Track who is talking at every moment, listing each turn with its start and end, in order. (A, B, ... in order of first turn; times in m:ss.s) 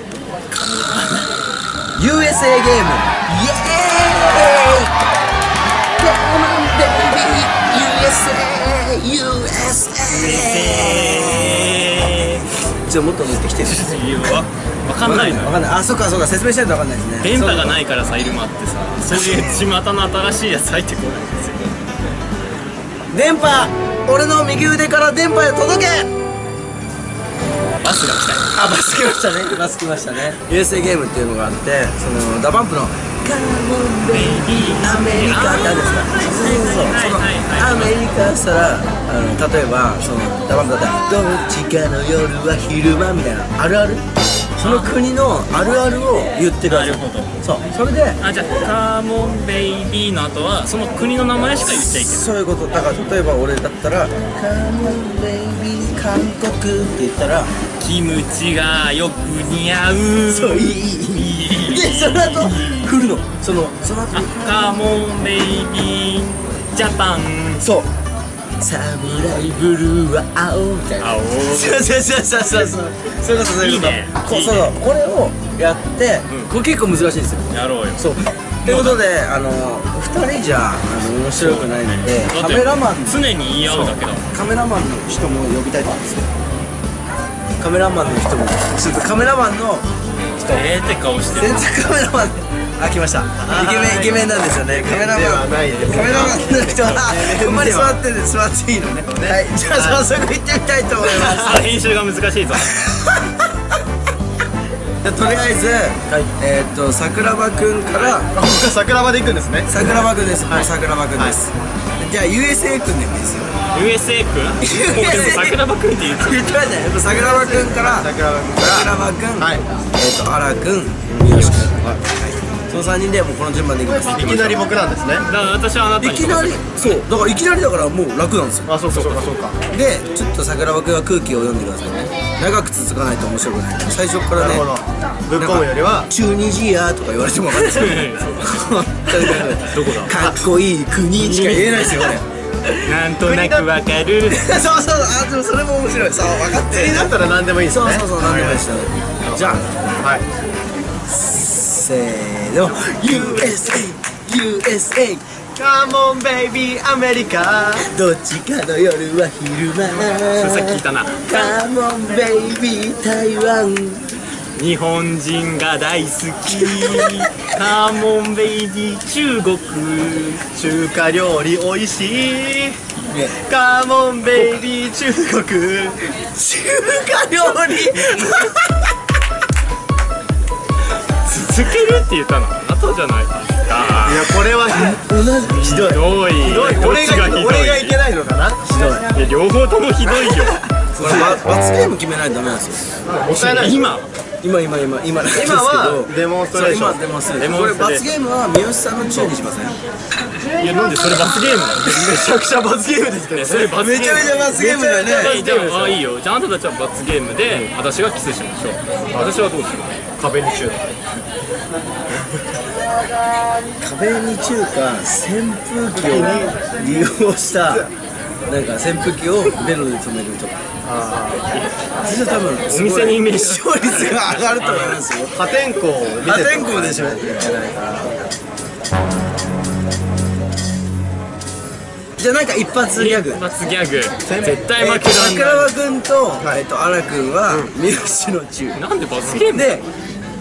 0:00.5-0:01.4 A
0:02.0-0:04.9 B
0:06.0-0:11.8 B
0:10.1-0:12.5 A
0:12.7-0:14.4 B
0:13.6-0:15.6 A
0:15.0-0:17.8 B
0:17.2-0:21.7 A
0:19.0-0:19.6 B
0:23.1-0:26.1 B
0:27.8-0:28.5 A
0:28.6-0:44.0 B
0:34.1-0:38.1 A
0:44.6-0:48.2 B
0:44.6-0:45.0 A
0:46.6-0:47.3 A
0:48.2-0:52.2 A
0:51.8-0:57.5 B
0:57.8-1:03.0 A
1:00.3-1:04.8 B
1:04.1-1:07.7 A
1:08.6-1:26.3 B
1:11.0-1:11.9 A
1:13.4-1:14.7 A
1:17.5-1:18.0 A
1:18.6-1:19.0 A
1:21.4-1:24.2 A
1:27.6-1:30.7 B
1:30.5-1:31.6 A
1:31.3-1:41.7 B
1:33.4-1:38.0 C
1:36.8-1:37.1 A
1:39.1-1:40.1 C
1:41.0-1:41.5 C
1:41.3-1:42.7 A
1:42.6-1:43.5 B
1:45.0-1:48.3 B
1:48.3-1:51.4 C
1:49.7-1:53.5 B
1:53.7-1:56.5 A
1:54.6-1:55.6 B
1:56.2-2:02.0 B
1:57.0-1:59.6 C
2:01.1-2:01.7 C
2:02.7-2:04.6 B
2:04.0-2:05.3 C
2:04.0-2:04.6 A
2:05.2-2:07.0 A
2:06.0-2:08.7 B
2:08.7-2:09.6 C
2:08.9-2:09.2 A
2:09.7-2:14.7 B
2:14.4-2:16.1 C
2:15.4-2:22.2 B
2:17.5-2:20.2 A
2:21.2-2:22.2 A
2:22.8-2:24.4 A
2:23.1-2:23.7 C
2:24.3-2:27.1 B
2:26.5-2:28.7 C
2:27.6-2:30.1 B
2:29.2-2:30.3 C
2:31.1-2:35.2 B
2:32.7-2:33.5 A
2:35.6-2:37.9 C
2:37.8-2:44.1 B
2:40.0-2:41.5 A
2:44.6-2:50.4 A
2:46.6-2:47.1 B
2:50.5-2:52.8 C
2:53.1-2:53.4 B
2:53.4-2:56.2 C
2:56.4-2:58.9 B
3:01.2-3:04.4 A
3:04.0-3:05.0 C
3:04.7-3:06.0 B
3:05.5-3:07.9 A
3:06.4-3:08.6 C
3:08.6-3:09.1 B
3:09.1-3:10.6 A
3:10.9-3:12.8 B
3:11.0-3:11.4 C
3:13.0-3:14.0 C
3:13.4-3:14.1 A
3:14.4-3:19.8 B
3:15.2-3:17.0 C
3:17.3-3:18.1 A
3:20.6-3:22.2 A
3:21.8-3:23.7 C
3:23.3-3:24.5 A
3:23.7-3:25.4 B
3:24.5-3:26.0 C
3:25.1-3:29.9 A
3:30.2-3:30.8 C
3:32.1-3:32.4 C
3:33.8-3:37.9 B
3:36.0-3:36.6 C
3:38.5-3:40.6 B
3:40.9-3:41.5 C
3:42.0-3:45.4 B
3:42.7-3:45.0 A
3:45.3-3:47.3 C
3:46.2-3:48.2 B
3:52.2-3:53.4 B
3:52.9-3:55.7 A
3:54.2-3:54.6 C
3:54.8-3:58.8 B
3:58.7-3:59.8 A
3:59.5-3:59.8 B